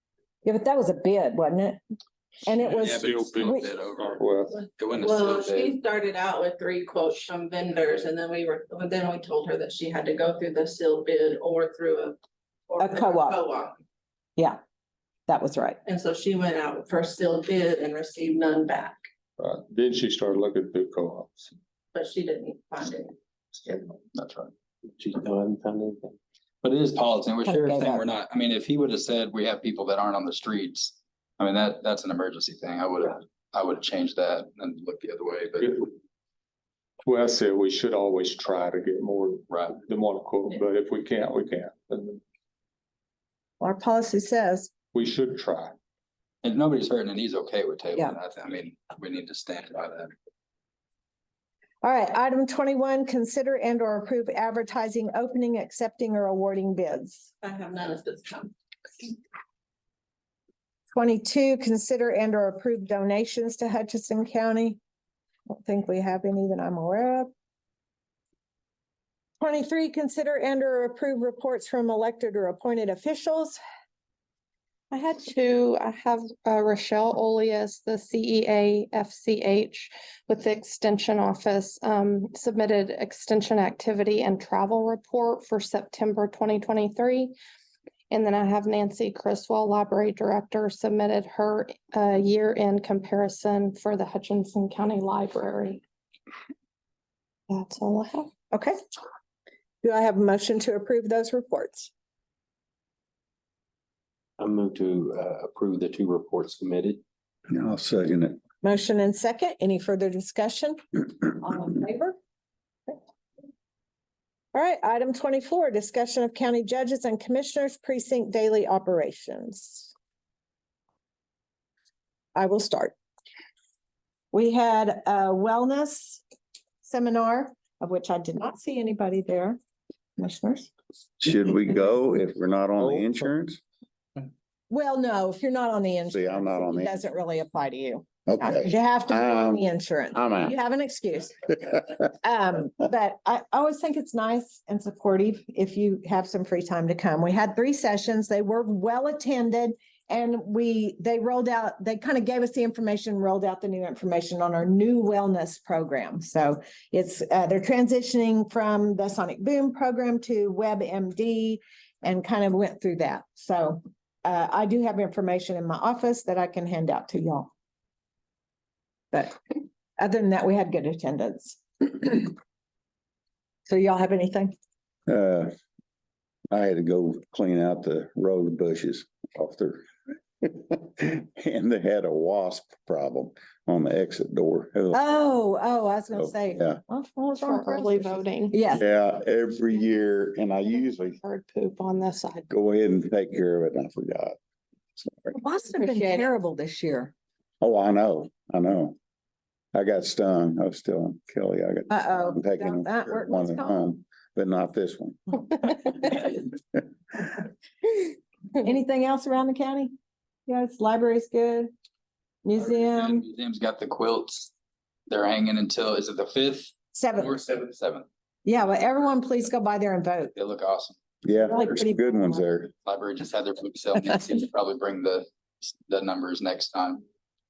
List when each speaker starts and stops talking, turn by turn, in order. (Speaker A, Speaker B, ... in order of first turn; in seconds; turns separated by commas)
Speaker A: 0.4-1.8, Speaker A: 2.5-3.7, Speaker B: 2.6-4.2, Speaker C: 2.9-4.5, Speaker B: 4.8-5.8, Speaker D: 5.0-12.2, Speaker D: 12.7-13.7, Speaker A: 12.8-13.4, Speaker A: 15.3-15.8, Speaker D: 15.8-19.0, Speaker C: 19.4-21.5, Speaker D: 21.9-23.1, Speaker B: 24.1-24.5, Speaker E: 25.0-26.1, Speaker B: 26.6-35.8, Speaker A: 27.4-28.1, Speaker C: 37.0-42.2, Speaker B: 39.5-39.8, Speaker A: 43.6-44.7, Speaker C: 44.9-45.8, Speaker B: 46.4-50.1, Speaker A: 51.8-57.3, Speaker D: 57.4-58.5, Speaker A: 60.9-64.8, Speaker A: 65.5-67.3, Speaker A: 69.4-73.6, Speaker F: 74.9-87.3, Speaker F: 88.1-95.8, Speaker F: 97.5-98.3, Speaker A: 99.8-101.9, Speaker E: 104.4-107.0, Speaker G: 107.5-108.4, Speaker A: 108.6-112.2, Speaker A: 114.5-119.9, Speaker A: 122.3-122.9, Speaker A: 124.3-126.2, Speaker A: 126.8-129.6, Speaker A: 130.2-130.7, Speaker G: 131.2-133.6, Speaker A: 134.7-141.4, Speaker G: 136.0-137.0, Speaker G: 138.3-140.5, Speaker A: 142.0-167.5, Speaker A: 169.1-172.3, Speaker A: 173.7-174.5, Speaker G: 175.1-175.5, Speaker G: 176.5-179.8, Speaker G: 180.4-185.0, Speaker A: 184.9-188.8, Speaker G: 186.2-186.8, Speaker F: 187.5-188.5, Speaker G: 188.7-191.2, Speaker F: 190.7-192.5, Speaker G: 192.5-194.4, Speaker G: 195.0-195.3, Speaker A: 195.3-197.1, Speaker G: 197.6-199.0, Speaker G: 199.7-206.4, Speaker A: 201.9-203.8, Speaker A: 208.6-209.9, Speaker A: 210.5-211.7, Speaker A: 212.4-213.2, Speaker B: 212.6-214.5, Speaker B: 215.1-218.1, Speaker A: 216.9-217.4, Speaker A: 218.4-220.3, Speaker B: 220.3-221.0, Speaker G: 221.2-222.7, Speaker A: 221.4-222.4, Speaker B: 222.8-227.0